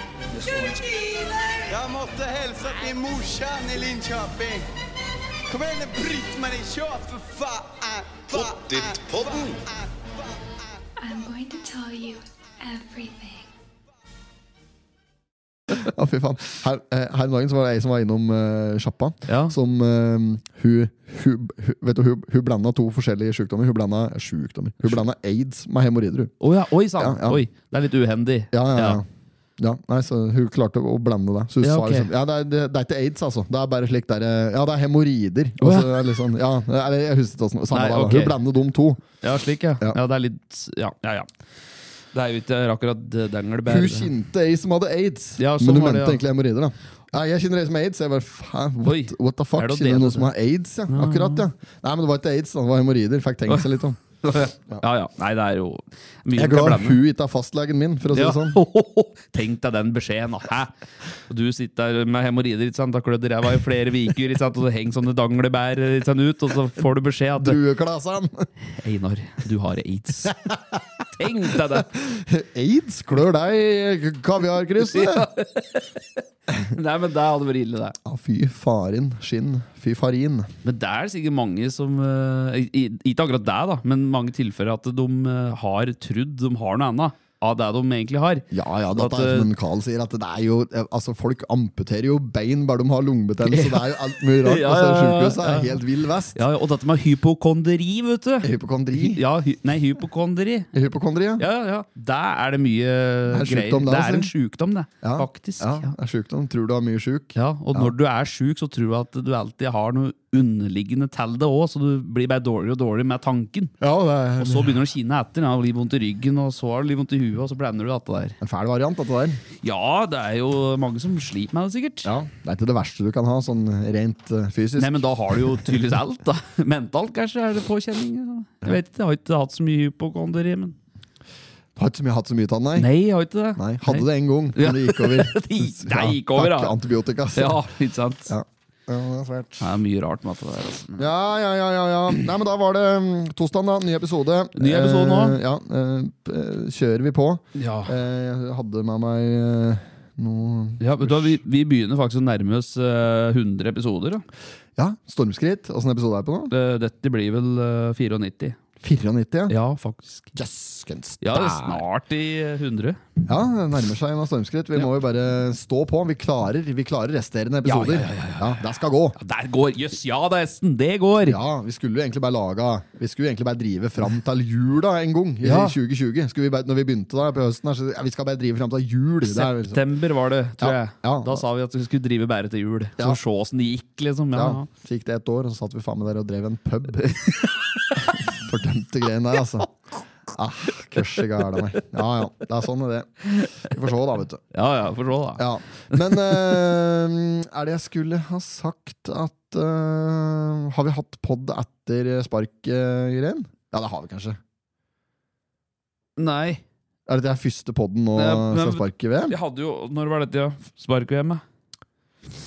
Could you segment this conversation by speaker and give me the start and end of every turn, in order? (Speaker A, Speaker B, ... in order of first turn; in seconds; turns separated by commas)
Speaker A: 0.3-1.6, Speaker B: 1.7-4.7, Speaker B: 5.5-10.6, Speaker A: 8.5-9.4, Speaker C: 11.0-13.5, Speaker D: 15.7-26.3, Speaker E: 19.3-19.6, Speaker E: 26.4-29.0, Speaker D: 27.0-27.4, Speaker D: 28.5-29.1, Speaker D: 29.6-39.0, Speaker E: 31.6-32.1, Speaker E: 35.6-36.0, Speaker E: 37.7-38.4, Speaker E: 39.2-41.3, Speaker E: 42.1-44.1, Speaker D: 43.7-54.0, Speaker E: 45.4-46.2, Speaker E: 48.8-50.3, Speaker E: 50.9-51.5, Speaker E: 53.5-57.0, Speaker D: 56.3-58.6, Speaker E: 58.1-60.7, Speaker E: 61.3-67.6, Speaker D: 67.4-68.5, Speaker E: 68.7-70.3, Speaker D: 70.3-70.8, Speaker E: 71.2-71.9, Speaker D: 71.8-75.3, Speaker E: 74.8-78.0, Speaker D: 78.0-80.5, Speaker E: 80.6-89.5, Speaker D: 88.5-96.4, Speaker E: 93.4-95.8, Speaker E: 96.3-100.7, Speaker D: 98.4-99.2, Speaker D: 100.7-101.5, Speaker E: 101.4-105.9, Speaker D: 103.3-104.3, Speaker D: 105.0-107.9, Speaker E: 107.3-113.7, Speaker D: 113.8-114.8, Speaker E: 114.4-118.4, Speaker D: 118.4-119.4, Speaker E: 119.6-122.1, Speaker D: 122.0-125.8, Speaker E: 124.8-130.8, Speaker D: 131.8-132.9, Speaker E: 132.8-136.8, Speaker D: 133.6-137.7, Speaker E: 137.3-138.3, Speaker D: 138.3-139.7, Speaker E: 139.6-141.1, Speaker D: 141.0-151.4, Speaker E: 144.6-145.4, Speaker E: 147.6-147.9, Speaker E: 150.8-154.2, Speaker D: 154.8-156.5, Speaker E: 156.5-158.6, Speaker D: 158.8-159.6, Speaker E: 159.5-160.3, Speaker D: 160.3-161.8, Speaker E: 161.2-163.0, Speaker D: 163.3-169.2, Speaker E: 167.6-171.4, Speaker D: 171.2-179.8, Speaker E: 175.4-175.8, Speaker E: 179.2-184.7, Speaker D: 180.6-181.4, Speaker D: 184.3-189.7, Speaker D: 190.3-194.4, Speaker E: 194.5-195.4, Speaker D: 195.4-204.4, Speaker E: 195.9-196.6, Speaker E: 206.2-206.6, Speaker D: 207.1-209.4, Speaker E: 208.2-211.4